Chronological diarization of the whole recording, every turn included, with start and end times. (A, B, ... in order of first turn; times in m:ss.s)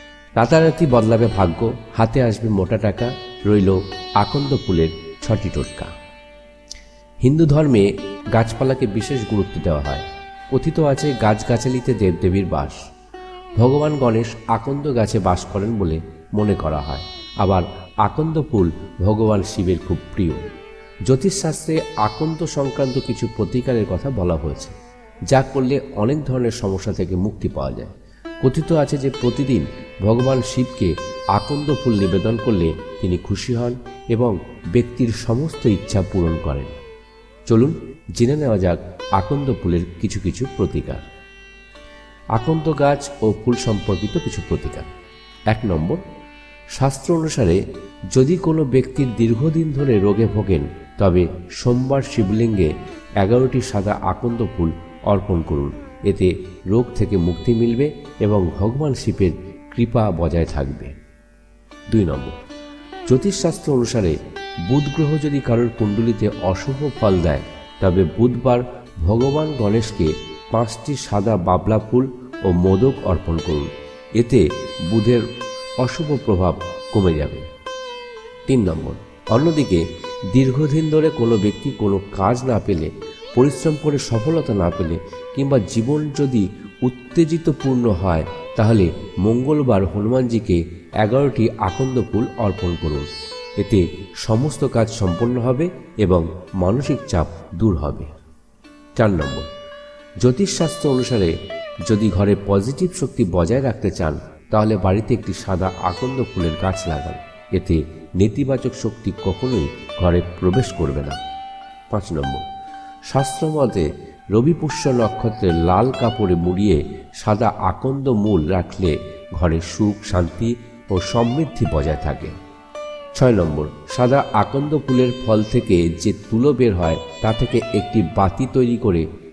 0:00.4-0:05.9 A
0:07.2-0:12.8 A
0:13.6-0:20.4 A
0:21.1-0:24.7 A
0:25.3-0:36.8 A
0:37.5-0:41.1 A
0:42.3-0:44.9 A
0:45.5-0:46.0 A
0:46.7-0:47.6 A
0:48.1-1:00.9 A
1:01.9-1:02.3 A
1:03.1-1:04.2 A
1:04.7-1:15.2 A
1:15.8-1:17.4 A
1:18.5-1:33.1 A
1:33.6-1:38.1 A
1:39.0-1:39.5 A
1:40.2-1:41.3 A
1:41.8-1:51.2 A
1:51.9-1:52.4 A
1:53.1-2:02.3 A
2:03.1-2:09.0 A